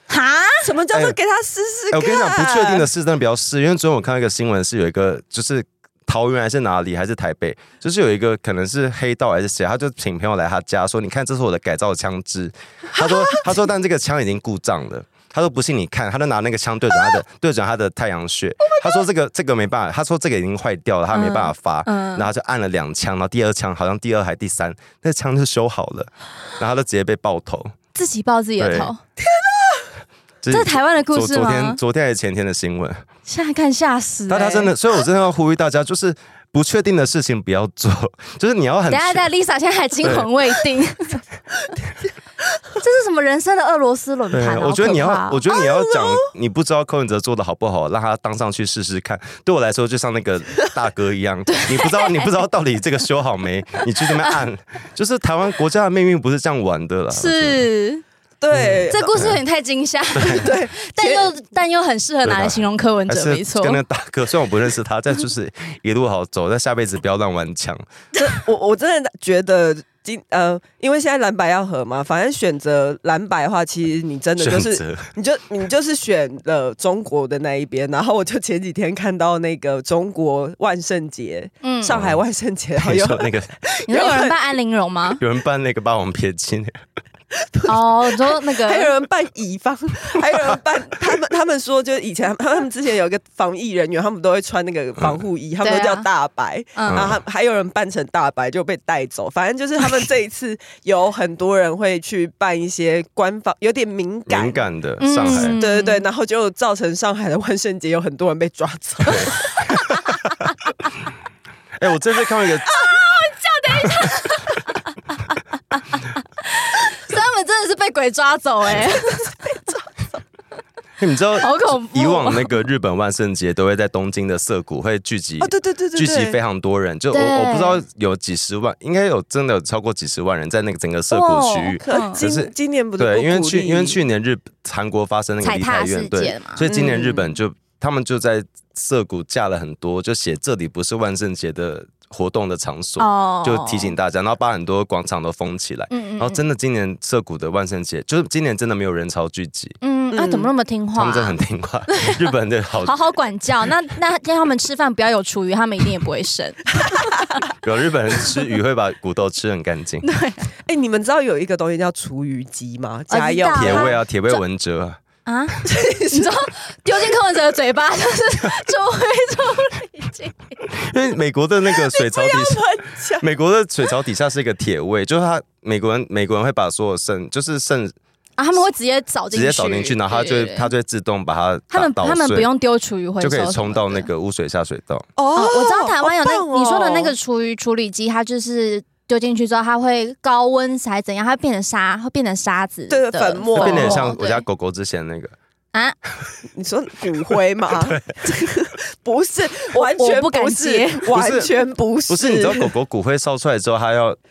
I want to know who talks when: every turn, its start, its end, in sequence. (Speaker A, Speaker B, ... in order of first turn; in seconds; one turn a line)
Speaker A: 0.1-0.7
Speaker B: 0.6-2.9
Speaker C: 0.9-1.2
Speaker C: 1.9-27.7
Speaker A: 21.1-22.3
Speaker A: 27.9-29.0
Speaker C: 28.6-28.9
Speaker B: 29.3-29.9
Speaker C: 30.4-33.0
Speaker A: 30.5-31.8
Speaker A: 33.3-34.7
Speaker C: 34.3-39.3
Speaker A: 38.9-41.2
Speaker C: 40.0-40.3
Speaker A: 42.8-45.4
Speaker C: 44.3-57.6
Speaker B: 45.5-46.1
Speaker A: 51.5-52.2
Speaker A: 57.1-58.0
Speaker B: 58.4-59.1
Speaker C: 58.5-59.4
Speaker A: 58.9-63.8
Speaker C: 60.1-60.5
Speaker B: 60.4-61.3
Speaker C: 62.2-67.8
Speaker B: 68.2-84.4
Speaker C: 74.4-75.1
Speaker A: 81.6-82.0
Speaker C: 81.9-82.2
Speaker C: 82.8-83.5
Speaker A: 83.9-85.2
Speaker C: 85.2-86.8
Speaker B: 87.4-104.7
Speaker A: 87.7-88.9
Speaker A: 95.6-96.1
Speaker A: 96.8-97.0
Speaker C: 96.9-97.2
Speaker C: 104.3-105.5
Speaker A: 105.0-106.0
Speaker B: 105.2-110.0
Speaker C: 111.8-112.7
Speaker A: 112.8-114.8
Speaker A: 115.3-119.3
Speaker B: 119.5-119.8
Speaker C: 121.0-149.8
Speaker A: 121.4-122.5
Speaker B: 125.4-126.4
Speaker A: 127.1-127.8
Speaker A: 131.1-132.2
Speaker B: 131.8-134.0
Speaker A: 135.4-136.7
Speaker B: 136.7-137.3
Speaker A: 143.0-143.9
Speaker A: 145.9-146.4
Speaker A: 149.8-151.4
Speaker B: 150.1-150.5
Speaker C: 150.9-152.9
Speaker A: 151.9-152.2
Speaker A: 152.8-157.1
Speaker C: 157.6-160.0
Speaker A: 160.0-160.5
Speaker B: 160.7-163.9
Speaker A: 163.1-164.4
Speaker C: 163.5-165.0
Speaker A: 165.3-170.4
Speaker B: 165.7-166.4
Speaker C: 170.7-172.7
Speaker B: 171.8-173.3
Speaker C: 173.2-178.0
Speaker A: 178.4-180.7
Speaker C: 179.3-182.5
Speaker A: 181.7-184.1
Speaker C: 183.2-185.1
Speaker B: 185.2-187.1
Speaker A: 185.3-194.4
Speaker B: 192.9-194.1
Speaker C: 193.6-195.3
Speaker B: 196.6-202.7
Speaker C: 197.7-198.2
Speaker A: 199.7-201.1
Speaker C: 201.1-201.5
Speaker C: 202.1-204.2